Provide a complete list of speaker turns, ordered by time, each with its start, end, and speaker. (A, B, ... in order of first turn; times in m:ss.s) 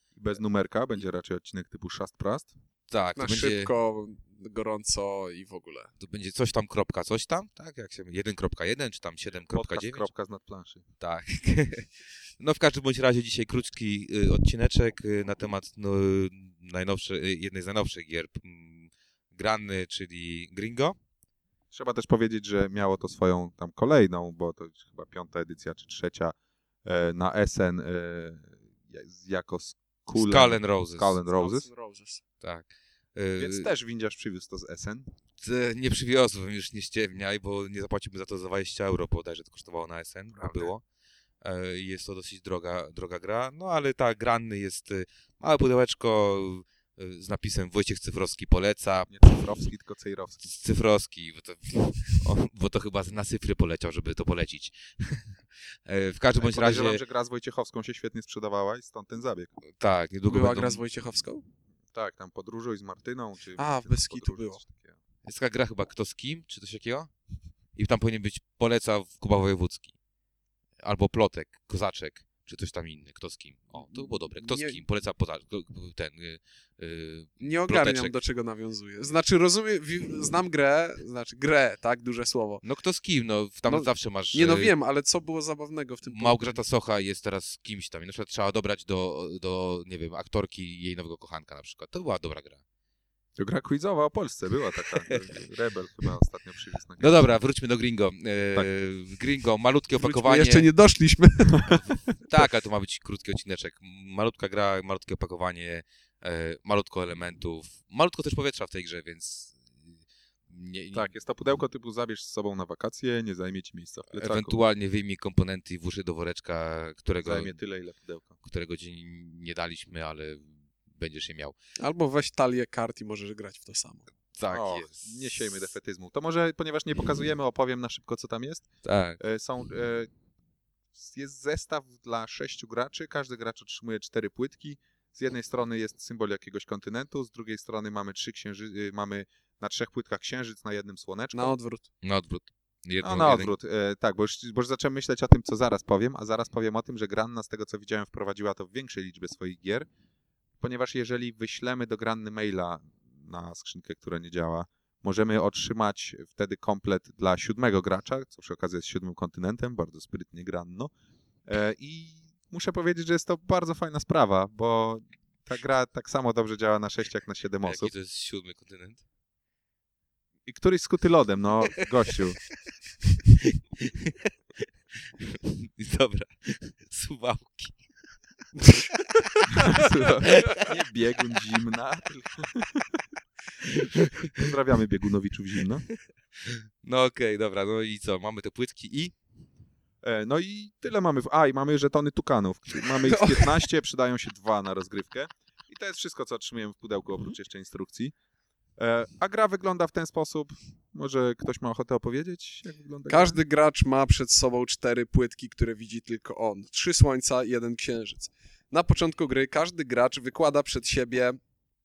0:00.1-0:02.5 A
0:02.9-0:03.7 B
0:03.2-0:05.9 C
0:06.0-0:10.0 B
0:09.5-0:10.8 A
0:11.0-0:21.0 B
0:21.7-0:31.7 A
0:30.1-0:31.2 B
0:31.3-0:32.2 C
0:32.4-0:33.7 B
0:33.4-0:35.1 A
0:35.4-0:40.8 B
0:40.3-0:40.7 A
0:41.4-0:49.2 B
0:49.1-0:50.4 A
0:50.4-0:55.3 B
0:55.8-0:57.0 B
0:56.4-0:59.5 A
0:59.8-1:00.8 B
1:00.3-1:01.4 C
1:01.9-1:05.0 A
1:03.6-1:04.6 C
1:05.2-1:07.1 B
1:07.7-1:09.9 B
1:10.8-1:18.1 B
1:13.9-1:14.8 C
1:17.4-1:22.6 C
1:22.6-1:24.7 B
1:23.7-1:26.6 C
1:26.0-1:32.6 B
1:33.4-1:37.3 A
1:37.0-1:40.7 B
1:40.0-1:41.8 C
1:42.2-1:49.6 B
1:50.5-1:51.1 B
1:50.9-1:54.6 A
1:54.1-1:57.6 B
1:57.2-1:58.3 A
1:58.4-2:01.5 B
2:01.8-2:04.0 C
2:04.3-2:05.1 B
2:04.5-2:08.7 A
2:08.8-2:09.2 B
2:09.2-2:10.1 A
2:11.0-2:21.5 A
2:21.3-2:21.9 C
2:22.0-2:23.5 B
2:23.0-2:29.9 A
2:30.6-2:40.9 A
2:41.4-2:47.9 A
2:47.6-2:49.0 B
2:50.4-2:52.4 A
2:53.3-2:54.3 B
2:55.2-2:57.8 B
2:58.7-2:59.8 C
2:58.9-3:00.7 B
2:59.6-3:03.0 A
3:03.6-3:04.5 B
3:04.3-3:05.8 A
3:06.4-3:09.1 B
3:10.0-3:18.1 A
3:13.0-3:13.6 C
3:18.8-3:23.4 A
3:23.1-3:31.4 C